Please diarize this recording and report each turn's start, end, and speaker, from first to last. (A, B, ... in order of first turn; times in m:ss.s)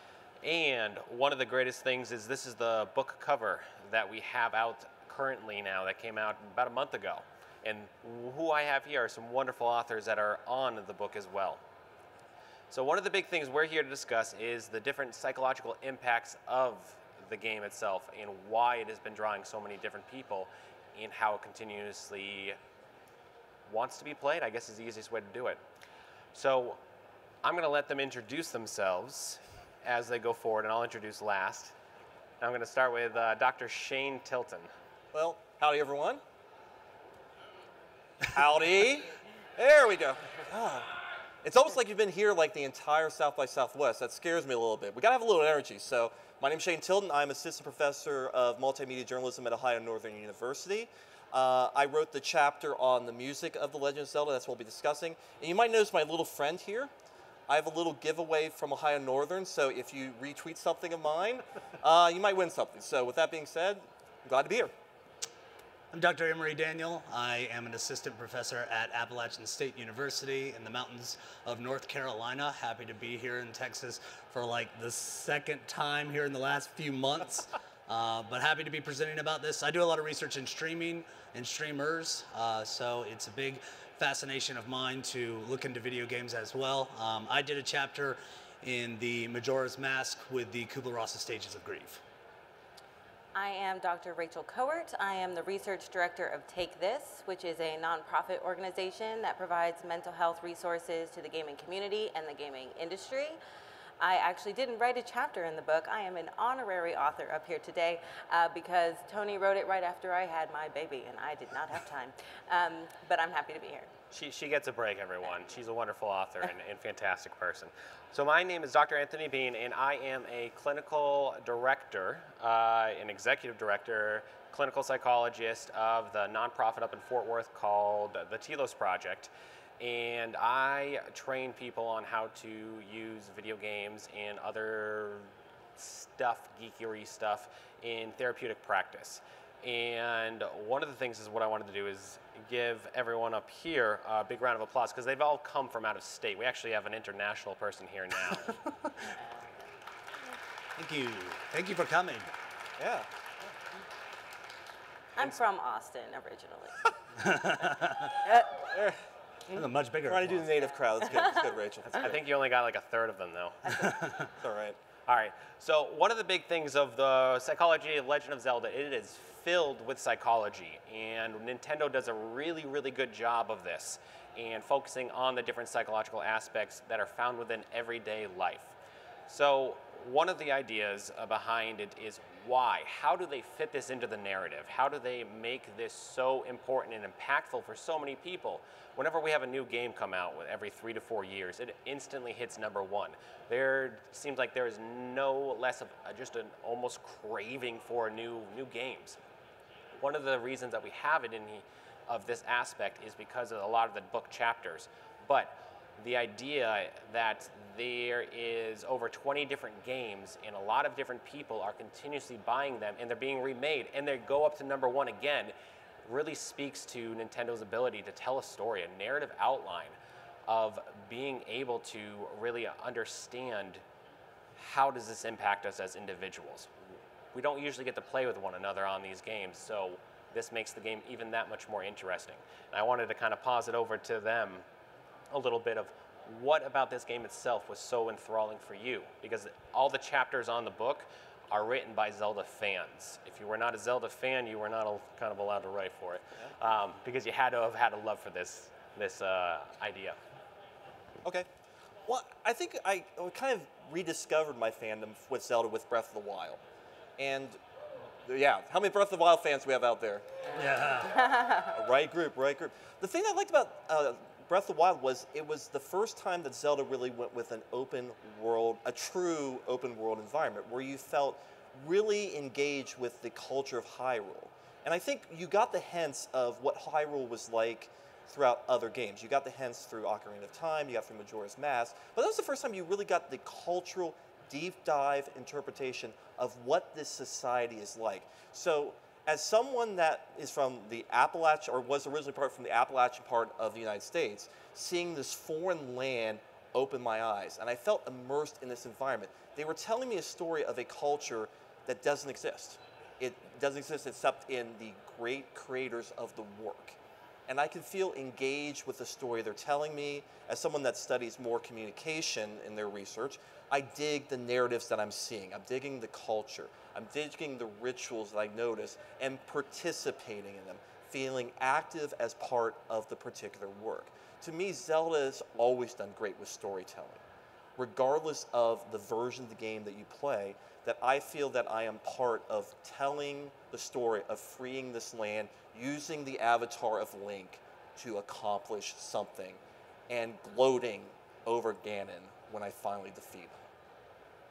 0:00.4-0:11.6 A
0:12.7-0:22.6 A
0:23.7-0:25.6 A
0:26.3-0:26.8 A
0:27.4-0:31.7 A
0:32.4-0:34.7 A
0:35.1-0:36.2 B
0:38.3-0:40.9 B
0:41.4-0:56.9 B
0:57.5-1:04.7 B
1:05.9-1:32.0 C
1:33.3-1:43.4 D
1:44.0-1:53.9 D
1:54.1-2:28.6 A
2:30.8-2:32.3 C
2:32.8-2:33.1 B
2:35.2-2:36.8 D
2:37.2-2:38.2 C
2:38.7-2:39.0 B
2:39.5-2:40.5 C
2:39.5-2:42.2 B
2:41.9-2:43.9 A
2:43.7-2:44.3 C
2:44.4-2:44.8 B
2:45.1-2:58.7 A
2:59.3-3:19.2 A
3:19.9-3:43.8 A
3:44.6-3:46.7 A
3:47.3-3:54.6 A
3:55.3-4:10.2 A
4:12.0-4:16.6 B
4:17.2-4:17.6 B
4:18.2-4:20.2 B
4:20.5-4:21.1 C
4:21.1-4:21.7 D
4:21.7-5:27.2 B
5:27.8-5:43.6 B